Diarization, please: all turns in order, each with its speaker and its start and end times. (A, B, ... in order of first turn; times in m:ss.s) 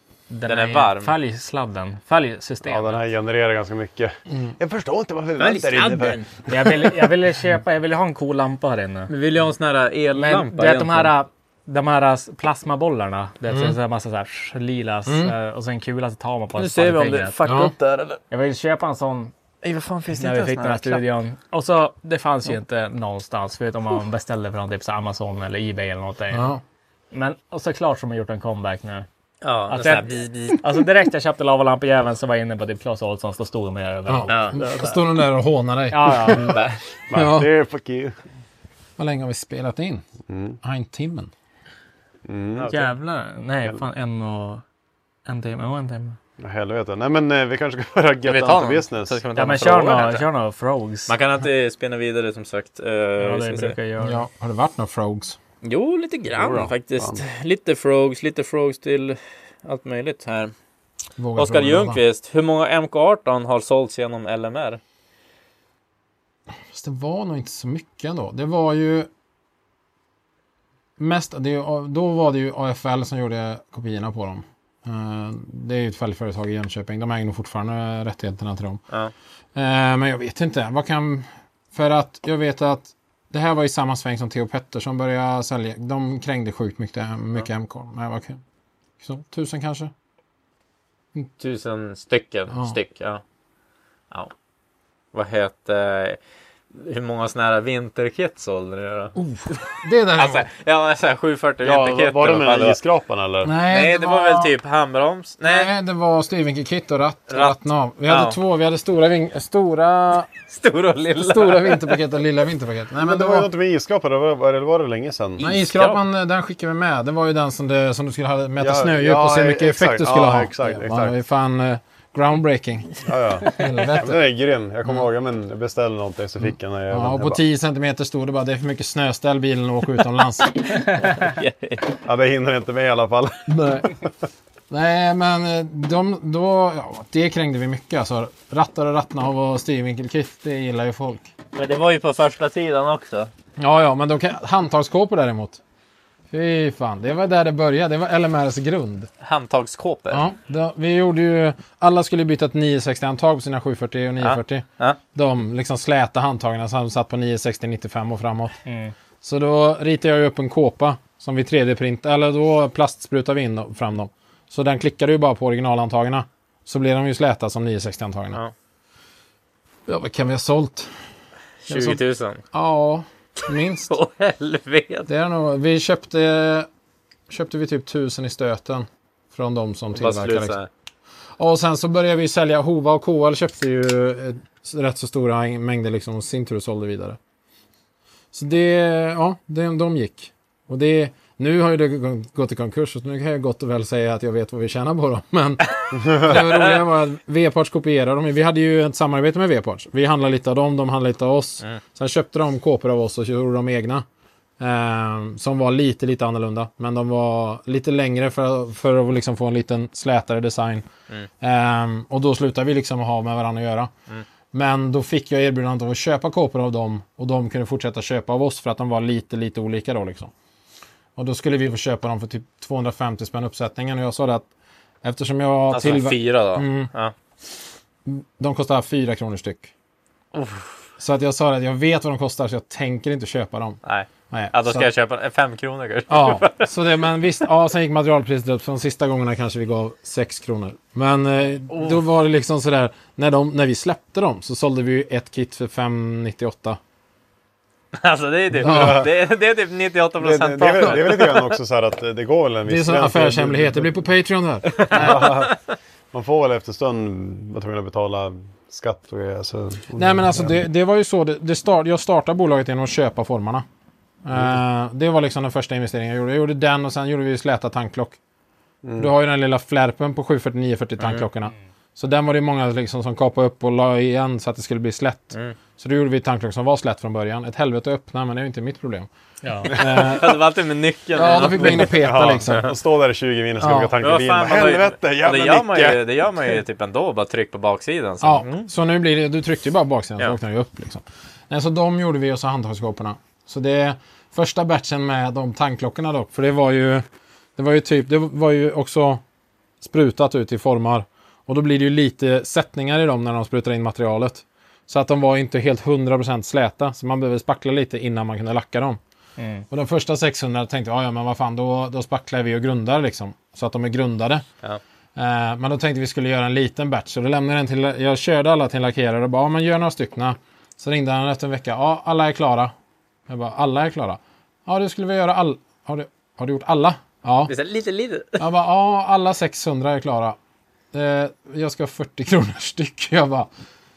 0:00.3-0:03.0 A
0:00.5-0:01.1 B
0:02.6-0:06.2 C
0:05.4-0:06.4 B
0:06.5-0:09.1 A
0:09.1-0:11.1 B
0:10.1-0:17.4 A
0:13.5-0:13.8 D
0:15.1-0:15.3 D
0:16.6-0:18.2 B
0:17.4-0:17.7 D
0:18.3-0:19.3 A
0:19.6-0:21.0 B
0:20.1-0:26.5 A
0:26.3-0:26.6 D
0:27.1-0:29.0 A
0:29.4-0:30.6 B
0:29.7-0:35.0 A
0:34.1-0:36.6 D
0:34.3-0:34.6 B
0:35.9-0:36.6 A
0:36.5-0:36.8 B
0:37.1-0:38.1 C
0:37.1-0:37.5 D
0:39.0-0:40.0 D
0:40.3-0:40.6 C
0:40.6-0:41.3 D
0:42.3-0:42.9 C
0:42.7-0:44.6 A
0:45.2-0:46.2 A
0:46.4-0:49.2 C
0:48.2-0:50.2 B
0:49.4-0:51.1 A
0:51.1-0:53.8 B
0:53.2-0:54.2 A
0:54.0-0:55.4 D
0:55.6-1:00.5 B
0:56.4-0:57.2 C
1:01.2-1:02.0 D
1:01.4-1:04.8 B
1:06.7-1:09.1 D
1:11.0-1:18.8 D
1:19.5-1:28.4 D
1:29.0-1:29.9 D
1:31.4-1:33.2 B
1:32.5-1:32.8 D
1:35.1-1:36.2 B
1:36.7-1:39.1 B
1:39.1-1:40.5 D
1:40.2-1:42.8 B
1:41.6-1:43.5 C
1:43.4-1:44.5 D
1:43.6-1:45.7 B
1:45.4-1:50.3 D
1:48.1-1:48.4 B
1:50.5-1:52.0 B
1:51.2-1:53.5 D
1:53.0-1:55.4 C
1:55.4-1:56.0 B
1:55.4-2:04.2 D
1:58.6-2:01.2 C
2:03.0-2:07.4 C
2:06.9-2:10.6 D
2:11.0-2:11.9 B
2:12.0-2:13.5 C
2:13.5-2:13.9 D
2:14.7-2:21.3 D
2:21.5-2:23.3 B
2:23.6-2:25.6 D
2:26.3-2:29.1 D
2:29.2-2:30.2 B
2:30.1-2:38.6 D
2:34.2-2:35.0 B
2:38.6-2:38.9 A
2:39.2-2:48.4 D
2:49.9-2:50.9 D
2:51.7-2:52.4 B
2:51.7-2:53.9 D
2:53.9-2:55.1 B
2:55.1-2:56.7 D
2:57.3-3:00.6 D
2:59.9-3:00.7 B
3:01.4-3:07.2 D
3:08.3-3:24.0 D
3:24.6-3:30.9 D
3:31.4-3:33.9 D
3:34.5-3:40.3 D
3:41.2-3:44.5 D
3:45.0-3:46.9 D
3:45.7-3:47.1 B
3:48.0-3:49.7 D
3:50.3-3:50.8 B
3:51.0-3:53.8 D
3:53.8-3:56.7 B
3:54.3-3:54.9 D
3:56.1-4:06.8 D
4:01.7-4:02.0 B
4:08.0-4:11.4 B
4:08.6-4:09.1 C
4:08.6-4:09.1 D
4:10.2-4:13.9 C
4:10.8-4:11.4 D
4:12.6-4:15.5 D
4:14.8-4:15.5 B
4:14.9-4:15.6 C
4:16.1-4:20.5 C
4:20.0-4:23.6 D
4:24.2-4:28.2 D
4:28.8-4:29.1 C
4:29.0-4:39.1 D
4:31.0-4:31.2 B
4:39.4-4:39.7 A
4:39.7-4:40.5 D
4:39.8-4:42.7 B
4:41.1-4:42.7 D
4:41.3-4:46.2 C
4:43.6-4:43.9 D
4:44.0-4:48.7 B
4:48.2-4:57.0 D
4:57.6-4:59.2 D
4:59.8-5:09.0 D
5:09.4-5:09.6 A
5:09.7-5:14.4 D
5:15.2-5:22.7 D
5:23.3-5:27.5 D
5:27.5-5:28.4 B
5:28.4-5:30.4 D
5:30.9-5:33.5 D